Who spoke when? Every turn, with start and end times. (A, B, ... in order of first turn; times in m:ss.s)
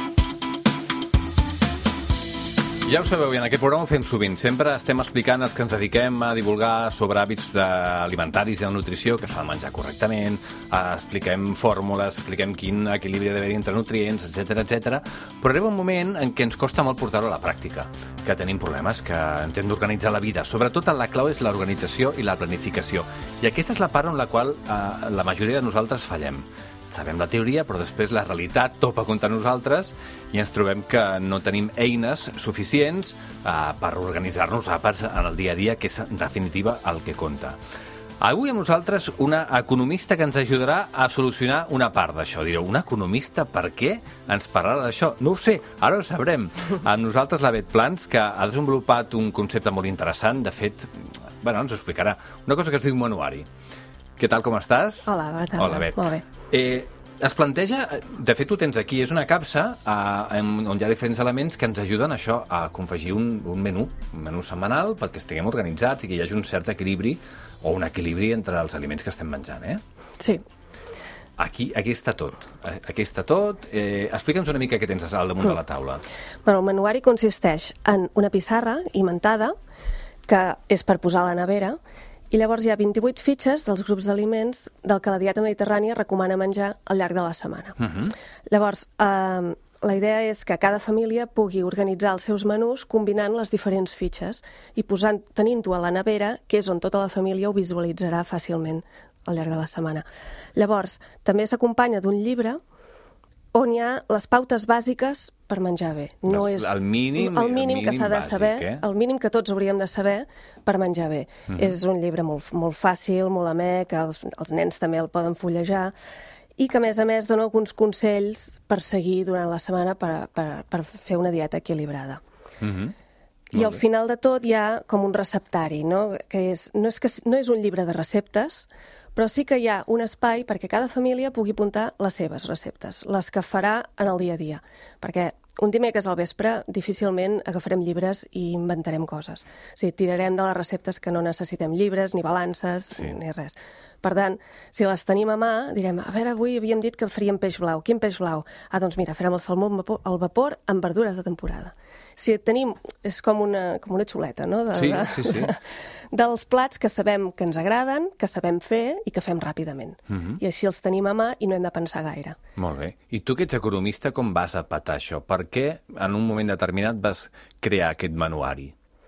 0:02.8-0:37.6 A
0:38.2-0:53.5 A
0:54.2-1:09.8 A
0:55.1-0:56.2 B
1:11.4-1:16.0 A
1:16.4-1:19.6 B
1:20.3-1:21.8 B
1:22.3-1:27.9 B
1:27.8-1:28.1 A
1:28.5-1:40.0 B
1:40.6-1:42.6 B
1:43.5-1:55.9 B
1:46.3-1:48.8 A
1:51.5-1:51.8 A
1:56.6-2:02.2 B
2:02.6-2:03.0 A
2:03.5-2:42.4 B
2:03.5-2:03.8 A
2:34.7-2:35.6 A
2:40.1-2:40.4 A
2:42.6-2:48.7 A